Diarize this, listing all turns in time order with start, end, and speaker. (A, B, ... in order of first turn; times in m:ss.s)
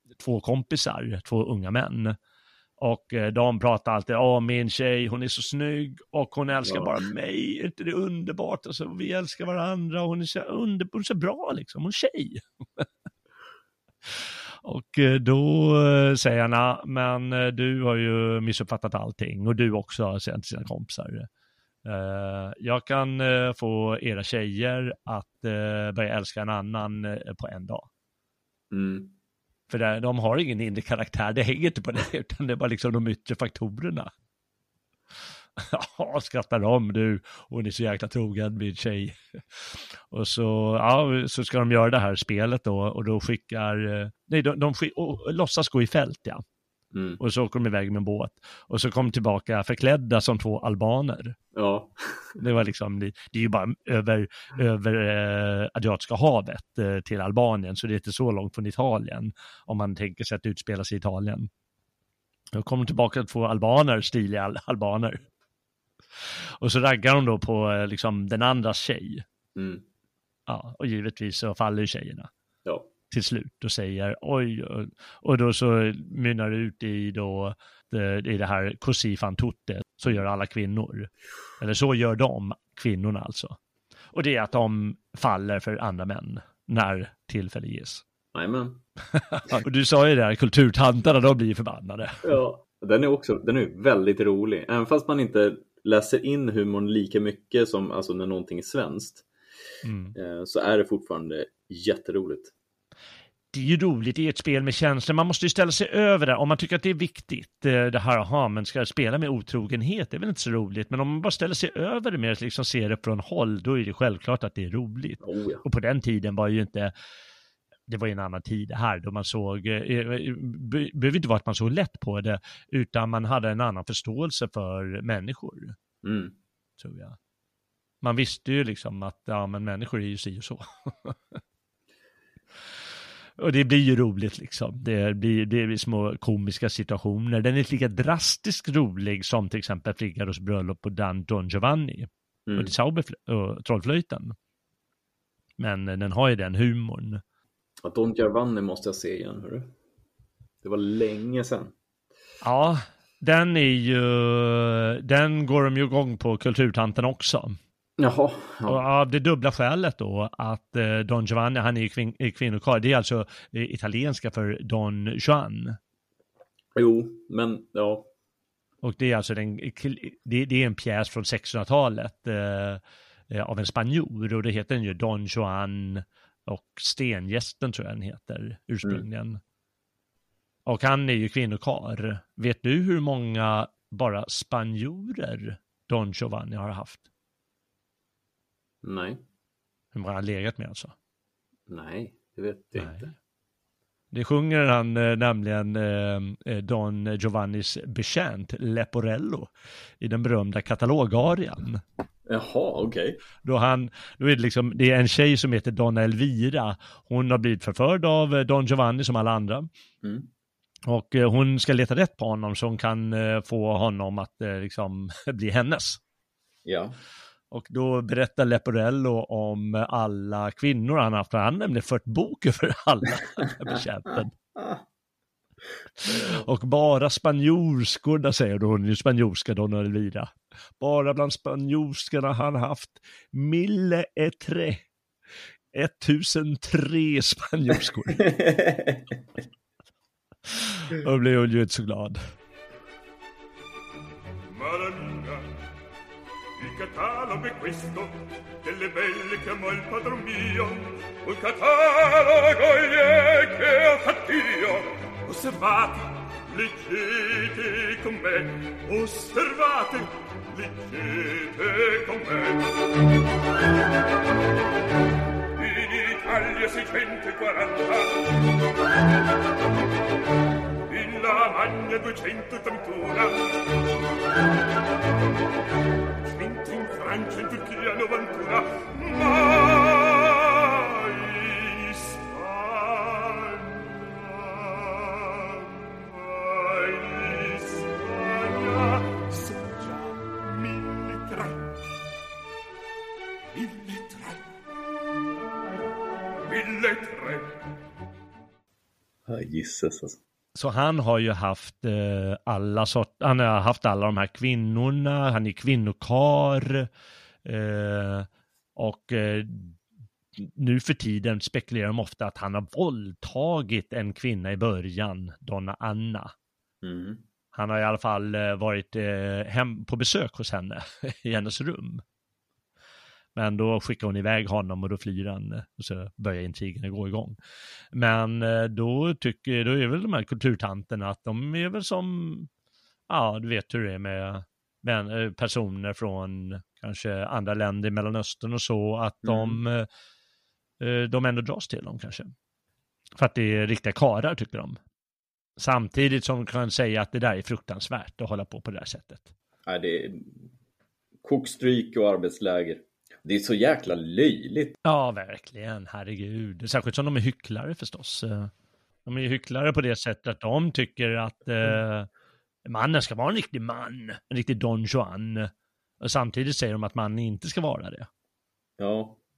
0:00.2-0:02.2 A
0:02.8-0:12.8 A
0:06.6-0:07.0 B
0:14.2-0:21.3 A
0:21.8-0:27.9 A
0:28.7-0:29.1 B
0:29.7-0:34.1 A
0:35.6-0:46.4 A
0:46.9-0:47.2 B
0:47.2-0:51.4 A
0:51.6-0:52.4 B
0:52.4-1:01.5 A
1:02.6-1:05.2 A
1:06.6-1:09.2 A
1:09.6-1:09.8 B
1:10.5-1:12.3 A
1:13.1-1:23.6 A
1:24.1-1:28.0 A
1:28.3-1:28.8 B
1:29.1-1:32.4 A
1:32.2-1:39.2 B
1:39.8-1:40.2 A
1:40.2-1:42.5 B
1:43.5-1:56.9 A
1:55.2-1:55.6 B
1:57.9-2:05.8 A
2:06.0-2:06.3 B
2:06.8-2:07.2 A
2:08.0-2:11.4 A
2:13.4-2:24.4 A
2:22.5-2:22.7 B
2:25.6-2:27.2 A
2:27.8-2:29.7 B
2:30.6-2:31.7 B
2:32.4-2:37.6 A
2:38.0-2:38.8 B
2:38.7-2:45.8 A
2:46.8-2:48.1 B
2:48.8-2:59.4 A
3:00.7-3:07.0 A
3:08.8-3:09.2 B
3:09.9-3:10.9 A
3:11.7-3:13.1 B
3:12.8-3:13.1 A
3:14.1-3:21.8 A
3:22.3-3:23.2 B
3:23.4-3:29.7 A
3:30.0-3:30.3 B
3:30.9-3:36.0 A
3:36.7-3:37.0 B
3:37.5-3:44.3 A
3:46.1-3:54.8 A
3:55.7-3:58.3 A
3:58.2-3:59.0 B
4:00.5-4:02.2 A
4:04.5-4:05.4 C
4:06.6-4:22.7 C
4:25.6-4:28.2 C
4:30.9-4:33.4 C
4:36.3-4:51.6 C
4:53.5-4:54.4 C
4:56.5-4:57.6 C
4:59.3-5:00.2 B
5:00.6-5:06.9 A
5:07.4-5:09.8 A
5:10.4-5:16.3 A
5:16.8-5:17.2 B
5:17.5-5:22.0 A
5:23.4-5:27.4 A
5:27.9-5:32.5 A
5:33.1-5:39.9 A
5:39.2-5:39.6 B
5:40.8-5:42.3 A
5:43.2-5:44.8 A
5:45.6-5:49.3 A
5:49.7-5:50.4 B
5:51.2-5:54.8 B
5:54.8-5:58.5 A
5:59.1-6:02.1 A
6:02.7-6:05.5 A
6:06.0-6:08.1 A
6:08.8-6:09.2 B